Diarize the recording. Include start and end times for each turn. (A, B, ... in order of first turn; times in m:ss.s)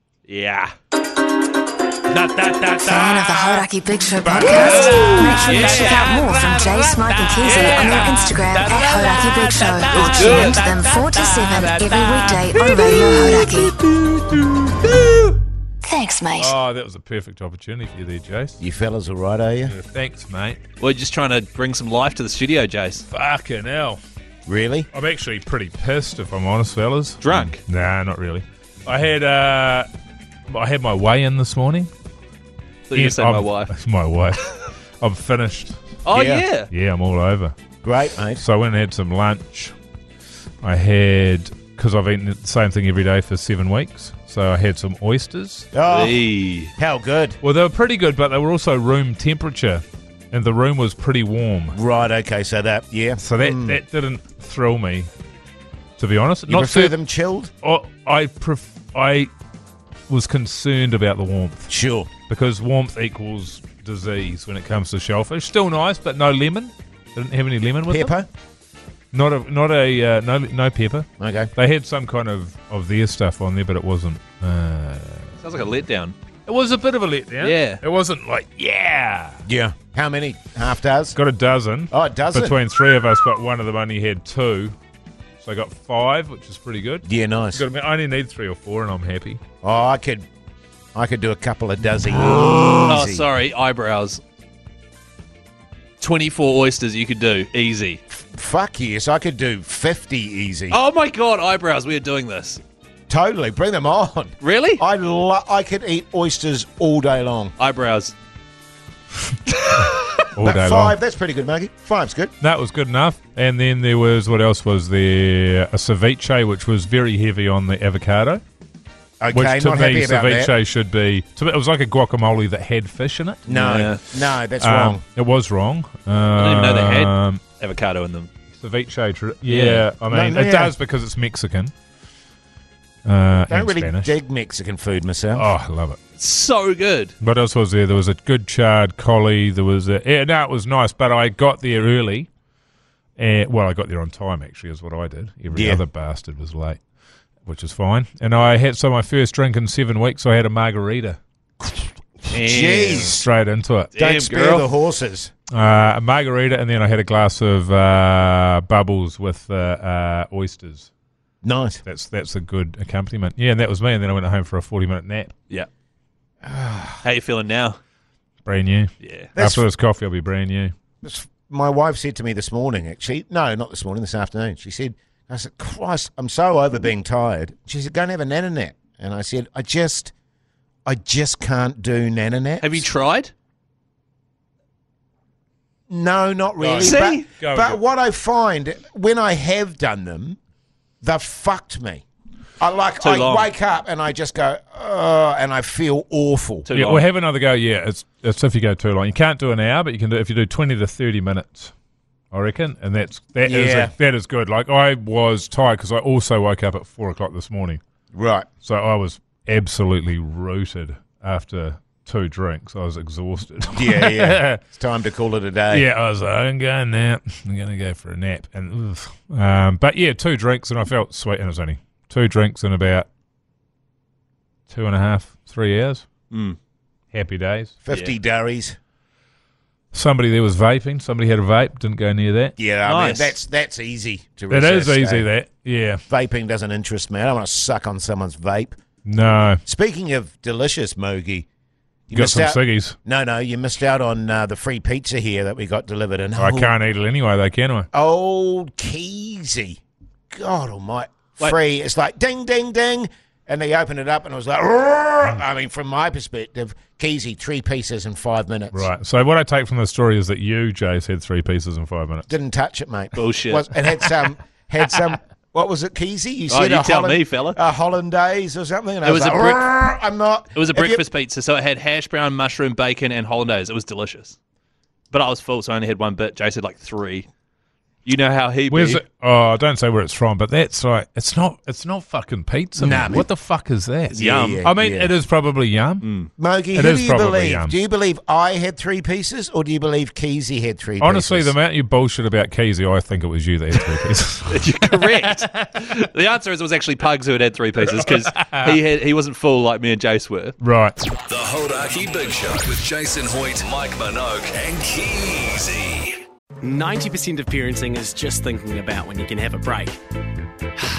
0:00.3-0:00.7 A
0:02.1-0:03.5 A
0:02.8-0:13.7 B
0:04.3-0:15.1 A
0:15.8-0:16.6 B
0:16.3-0:18.6 C
0:18.6-0:19.8 D
0:19.7-0:20.6 C
0:20.8-0:23.0 A
0:23.1-0:24.0 C
0:24.4-0:24.9 D
0:24.9-0:29.9 C
0:27.2-0:27.6 A
0:30.5-0:31.9 C
0:32.9-0:33.7 A
0:32.9-0:35.8 C
0:36.0-0:36.7 A
0:36.1-0:36.5 D
0:36.7-0:37.5 C
0:37.8-0:38.4 D
0:38.4-0:39.7 C
0:40.6-0:45.7 C
0:45.7-0:46.3 D
0:45.9-0:46.7 A
0:46.8-0:47.4 D
0:47.4-0:51.8 C
0:51.7-0:53.8 D
0:53.2-0:55.1 C
0:56.0-0:57.0 C
0:56.5-0:57.5 D
0:57.6-0:59.3 C
1:00.1-1:01.7 C
1:01.7-1:02.1 D
1:02.3-1:08.1 C
1:07.9-1:08.3 D
1:09.1-1:15.4 C
1:11.2-1:11.5 D
1:15.4-1:16.2 A
1:16.5-1:19.4 C
1:17.4-1:17.8 A
1:19.5-1:21.2 D
1:21.1-1:24.8 C
1:21.9-1:22.6 D
1:25.4-1:29.4 C
1:27.0-1:27.6 D
1:29.6-1:30.2 D
1:30.9-1:33.3 D
1:32.4-1:34.2 A
1:36.0-1:38.0 A
1:38.1-1:40.8 D
1:40.7-1:42.6 A
1:43.1-1:47.5 D
1:44.4-1:44.8 A
1:47.6-1:48.1 A
1:50.4-1:51.0 C
1:50.4-1:52.3 D
1:52.4-1:58.4 C
1:59.2-2:00.5 D
1:59.3-2:03.4 C
2:03.5-2:05.0 D
2:03.5-2:04.0 A
2:04.6-2:07.4 C
2:06.4-2:08.3 A
2:08.6-2:11.7 C
2:09.5-2:09.9 A
2:10.1-2:10.7 D
2:13.0-2:14.2 C
2:13.5-2:15.5 D
2:15.3-2:16.0 C
2:16.2-2:17.1 A
2:17.2-2:22.3 C
2:23.2-2:26.8 C
2:25.5-2:25.9 D
2:27.4-2:31.2 C
2:31.7-2:33.3 D
2:32.3-2:33.2 A
2:33.1-2:33.9 C
2:33.9-2:34.7 A
2:34.0-2:35.3 D
2:35.5-2:40.9 C
2:41.4-2:41.8 D
2:41.8-2:45.3 C
2:46.4-2:47.0 D
2:47.0-2:47.8 A
2:48.4-2:50.7 C
2:49.0-2:49.3 A
2:49.3-2:49.7 D
2:51.0-3:00.1 D
3:00.9-3:02.9 D
3:02.6-3:03.3 A
3:05.9-3:10.4 D
3:06.6-3:07.8 C
3:06.8-3:07.3 A
3:11.0-3:12.0 D
3:12.6-3:16.7 D
3:13.0-3:13.5 A
3:16.6-3:17.1 A
3:16.8-3:21.7 C
3:22.3-3:27.8 C
3:23.4-3:23.9 D
3:28.1-3:28.5 D
3:28.6-3:34.6 C
3:33.7-3:35.9 D
3:35.7-3:43.1 C
3:44.7-3:46.0 C
3:46.3-3:46.6 A
3:47.1-3:47.8 C
3:47.8-3:48.8 D
3:49.9-3:52.5 C
3:52.6-3:55.3 D
3:52.8-3:53.4 A
3:54.5-3:56.0 C
3:56.1-3:58.8 D
3:59.0-3:59.6 C
3:59.6-4:01.5 D
4:02.1-4:06.7 D
4:02.1-4:03.0 C
4:06.4-4:07.9 C
4:07.9-4:09.8 D
4:10.3-4:18.9 D
4:18.7-4:22.3 C
4:22.3-4:31.0 D
4:23.2-4:23.7 A
4:26.5-4:27.6 A
4:29.0-4:29.7 A
4:30.6-4:34.4 A
4:35.1-4:37.3 A
4:38.0-4:39.0 A
4:38.7-4:46.0 C
4:42.8-4:43.3 D
4:44.1-4:44.6 A
4:44.1-4:45.1 D
4:46.0-4:46.3 A
4:46.4-4:51.5 D
4:46.7-4:47.8 C
4:51.0-4:55.7 C
4:54.5-5:00.6 A
4:58.0-4:58.8 C
5:00.6-5:01.0 C
5:01.3-5:06.0 E
5:06.6-5:09.9 F